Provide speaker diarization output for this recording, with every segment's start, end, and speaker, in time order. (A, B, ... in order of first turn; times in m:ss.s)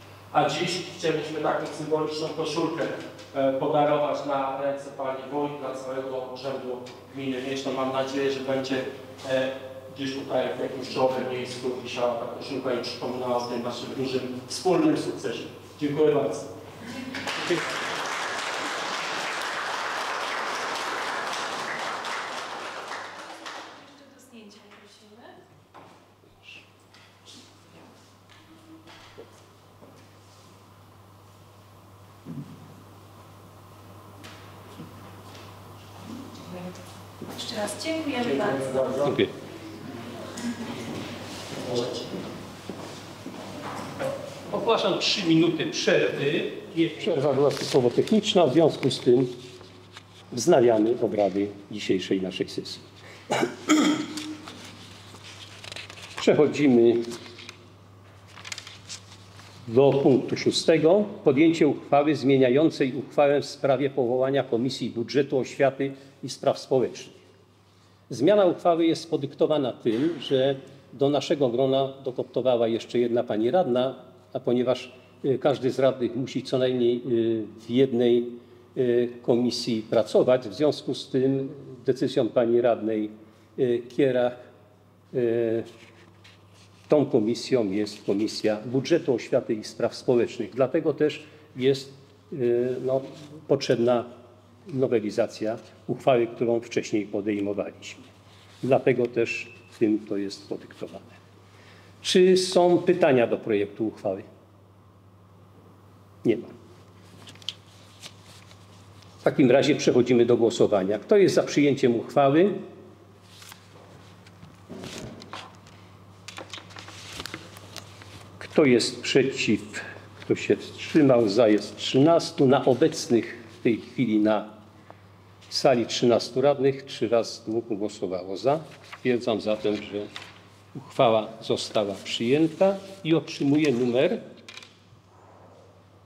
0:00.3-0:16.5 A
0:23.8-0:25.3 B
0:37.3-0:38.8 B
0:38.2-0:39.2 A
0:39.0-0:39.3 C
0:41.7-0:42.0 A
0:44.5-0:49.4 C
0:50.3-0:52.9 C
0:56.2-0:57.1 C
0:59.7-1:07.2 C
1:08.1-1:24.4 C
1:25.1-1:25.7 C
1:26.9-1:34.1 C
1:34.7-1:38.1 C
1:38.6-1:41.2 C
1:42.0-1:44.2 C
1:46.2-1:46.5 C
1:49.2-1:52.6 C
1:58.4-2:04.5 C
2:05.5-2:10.1 C
2:10.7-2:14.3 C